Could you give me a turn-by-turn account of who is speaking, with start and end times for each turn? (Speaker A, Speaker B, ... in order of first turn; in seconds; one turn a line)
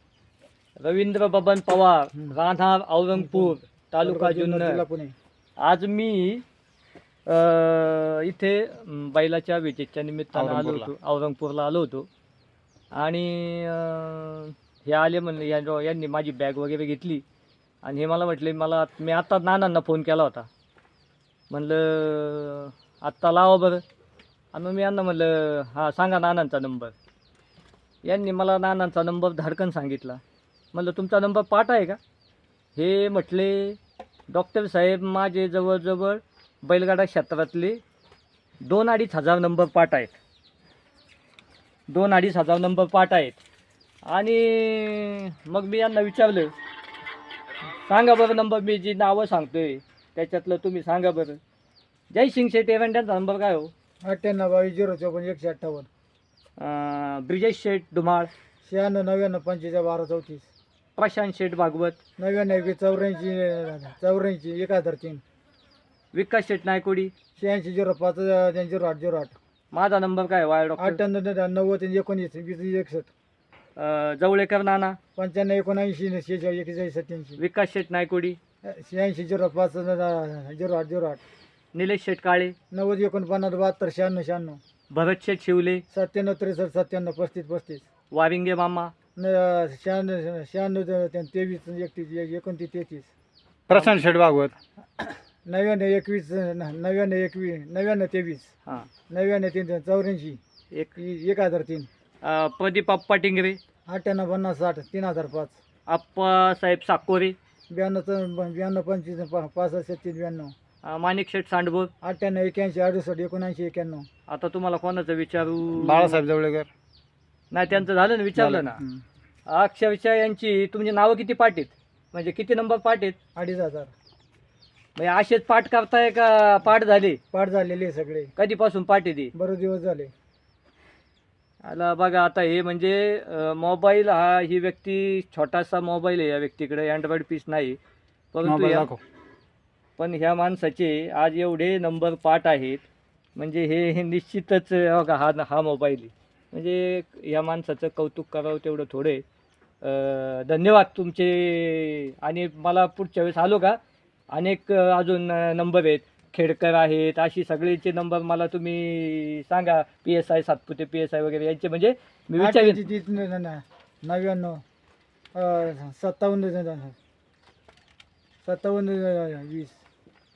Speaker A: 0.8-4.8
Speaker B: 3.1-5.1
Speaker A: 5.6-6.4
Speaker A: 7.3-12.1
Speaker C: 10.3-10.9
Speaker A: 12.9-17.2
Speaker A: 17.8-20.5
Speaker A: 21.5-23.8
Speaker A: 24.5-26.9
Speaker A: 28.0-30.2
Speaker A: 30.7-32.0
Speaker A: 32.8-33.8
Speaker A: 34.3-37.8
Speaker A: 38.6-40.1
Speaker A: 41.9-43.4
Speaker A: 44.1-46.5
Speaker A: 47.8-51.4
Speaker A: 52.1-53.7
Speaker B: 54.0-55.9
Speaker A: 56.6-58.3
Speaker B: 58.6-60.5
Speaker A: 61.0-62.0
Speaker B: 62.2-65.2
Speaker A: 66.1-67.1
Speaker B: 67.4-69.3
Speaker A: 69.7-71.0
Speaker B: 70.8-73.1
Speaker A: 73.8-75.0
Speaker B: 75.2-77.4
Speaker A: 77.4-78.4
Speaker B: 78.6-81.2
Speaker A: 81.7-82.5
Speaker B: 82.7-84.6
Speaker A: 84.9-85.8
Speaker B: 85.9-87.9
Speaker A: 88.1-88.9
Speaker B: 89.2-93.1
Speaker C: 93.7-94.5
Speaker A: 93.7-94.0
Speaker B: 95.5-98.5
Speaker B: 99.1-100.4
Speaker B: 101.0-101.9
Speaker A: 102.2-103.6
Speaker B: 103.9-105.6
Speaker A: 105.9-107.3
Speaker B: 107.7-110.5
Speaker A: 110.8-111.9
Speaker B: 112.0-114.1
Speaker A: 114.3-116.2
Speaker C: 115.8-116.7
Speaker A: 117.5-118.8
Speaker A: 119.5-123.2
Speaker B: 123.3-123.9
Speaker A: 125.0-127.2
Speaker B: 127.3-128.3
Speaker A: 128.3-129.3
Speaker B: 129.3-130.1
Speaker A: 131.6-137.8
Speaker A: 138.3-138.9
Speaker C: 138.4-139.0
Speaker A: 140.0-142.8
Speaker A: 143.3-149.2
Speaker A: 149.8-153.8
Speaker A: 154.3-162.8
Speaker B: 162.4-164.6
Speaker B: 165.3-166.9
Speaker B: 168.4-169.8